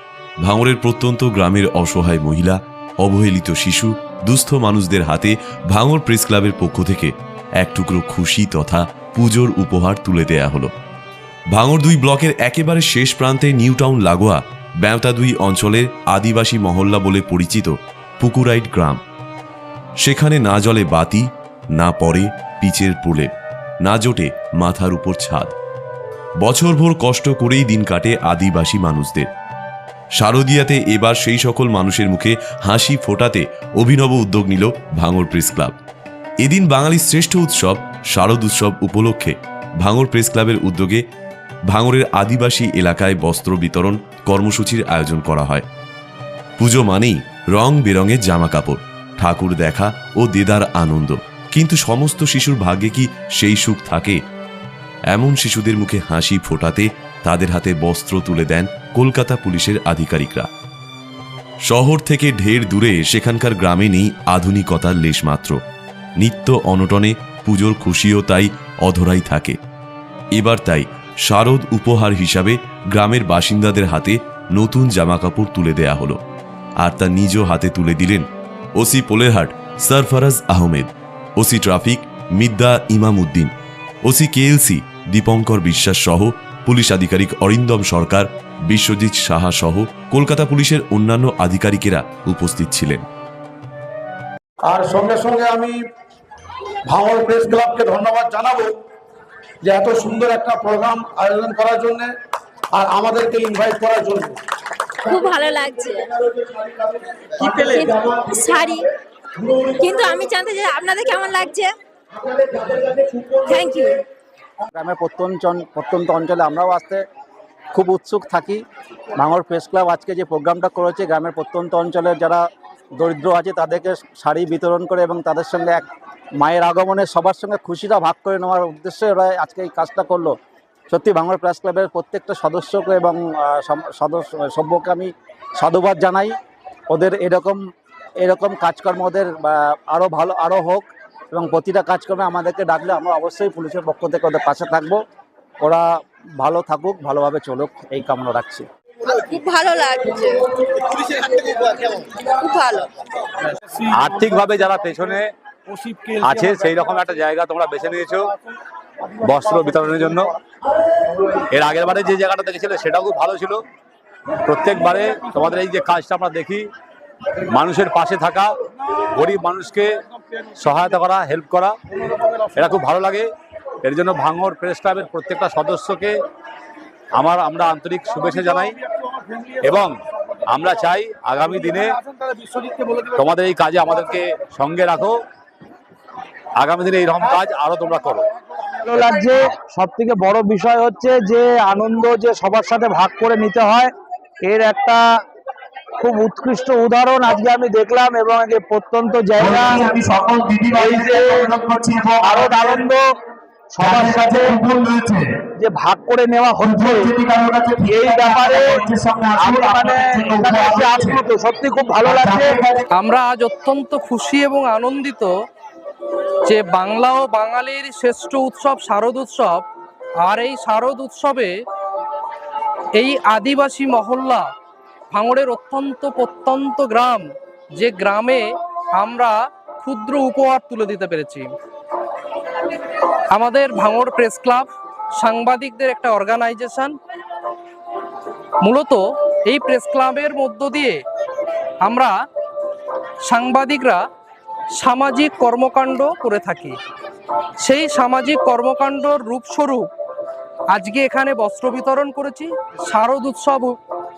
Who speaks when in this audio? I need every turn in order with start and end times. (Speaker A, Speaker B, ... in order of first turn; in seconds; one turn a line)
Speaker A: 0.4-10.7
Speaker A: 11.5-19.0
Speaker A: 20.0-23.3
Speaker A: 23.8-25.5
Speaker A: 26.4-29.3
Speaker A: 30.2-35.8
Speaker A: 36.4-41.0
Speaker A: 41.7-45.6
Speaker A: 46.6-54.2
Speaker A: 55.1-60.5
Speaker A: 61.7-65.6
Speaker A: 66.2-69.6
Speaker A: 70.3-76.2
Speaker A: 76.8-78.3
Speaker A: 78.8-83.5
Speaker A: 84.0-93.0
Speaker B: 94.7-95.8
Speaker B: 96.9-98.7
Speaker B: 99.6-102.1
Speaker B: 102.8-104.3
Speaker C: 105.0-106.1
Speaker C: 107.4-108.8
Speaker C: 109.5-111.7
Speaker C: 112.4-114.0
Speaker D: 114.7-117.0
Speaker D: 117.7-118.6
Speaker D: 119.2-122.4
Speaker D: 123.0-125.8
Speaker D: 126.4-130.3
Speaker D: 130.9-136.3
Speaker D: 136.9-137.6
Speaker D: 138.2-145.0
Speaker D: 146.4-148.7
Speaker C: 149.2-150.4
Speaker C: 152.4-152.8
Speaker E: 153.8-158.3
Speaker E: 159.2-160.3
Speaker E: 161.4-163.6
Speaker E: 164.4-166.7
Speaker E: 167.5-168.5
Speaker E: 169.1-171.8
Speaker E: 172.5-173.3
Speaker E: 173.8-176.2
Speaker E: 177.2-178.8
Speaker E: 179.6-182.0
Speaker E: 182.9-185.2
Speaker E: 186.6-188.2
Speaker F: 188.8-193.9
Speaker F: 194.4-195.0
Speaker F: 196.0-199.8
Speaker G: 199.4-202.9
Speaker F: 200.7-201.5
Speaker F: 202.2-203.0
Speaker F: 203.7-204.6
Speaker G: 203.8-205.3
Speaker F: 205.6-207.1
Speaker G: 206.6-211.2
Speaker F: 207.8-212.6
Speaker G: 212.0-212.8
Speaker H: 212.9-215.3
Speaker H: 216.5-219.6
Speaker H: 220.2-221.5
Speaker H: 222.9-224.5
Speaker H: 225.1-231.5
Speaker H: 233.3-236.9
Speaker H: 238.6-241.0
Speaker H: 241.8-242.1
Speaker H: 243.2-244.0
Speaker H: 244.8-246.8
Speaker H: 247.6-249.9
Speaker H: 250.7-253.8